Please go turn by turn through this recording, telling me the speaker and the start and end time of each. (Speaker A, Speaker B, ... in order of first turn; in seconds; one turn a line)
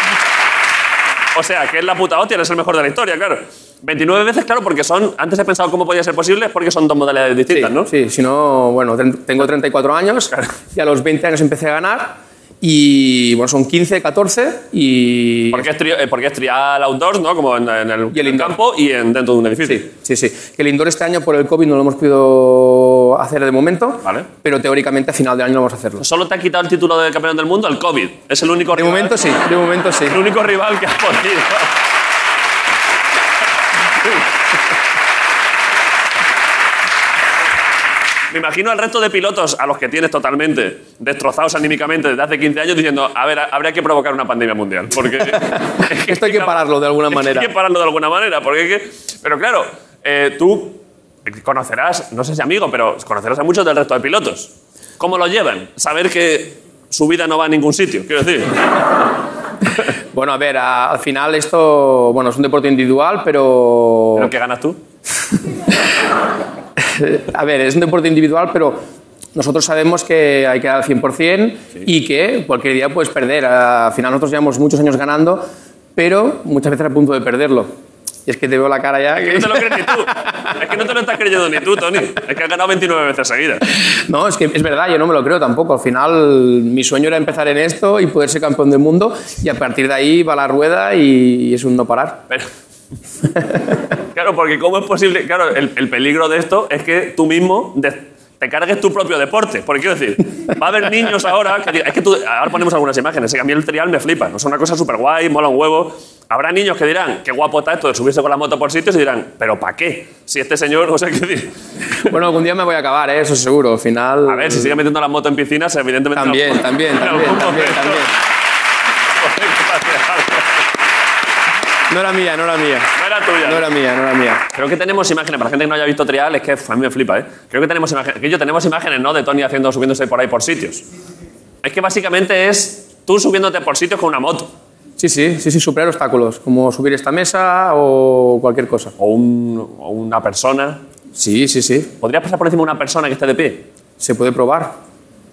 Speaker A: 1.3-7.9
Speaker B: 7.5-15.7
Speaker A: 15.5-19.9
Speaker B: 18.1-18.6
Speaker B: 19.6-26.1
Speaker A: 24.0-24.3
Speaker A: 26.0-29.2
Speaker B: 28.7-30.2
Speaker A: 30.1-31.7
Speaker A: 34.0-34.2
Speaker A: 38.3-58.5
Speaker B: 45.0-47.5
Speaker B: 60.1-64.3
Speaker A: 64.1-64.8
Speaker B: 66.8-68.8
Speaker B: 69.3-77.7
Speaker B: 78.3-80.5
Speaker A: 79.1-83.6
Speaker B: 84.1-92.2
Speaker A: 94.1-111.5
Speaker B: 112.1-114.8
Speaker A: 114.3-118.1
Speaker B: 116.1-118.1
Speaker A: 119.1-120.6
Speaker B: 121.9-122.9
Speaker A: 123.0-123.7
Speaker B: 123.4-124.4
Speaker A: 124.5-130.8
Speaker A: 131.6-134.5
Speaker B: 135.0-138.9
Speaker A: 139.0-140.8
Speaker B: 141.1-141.9
Speaker A: 142.0-143.7
Speaker B: 144.0-144.8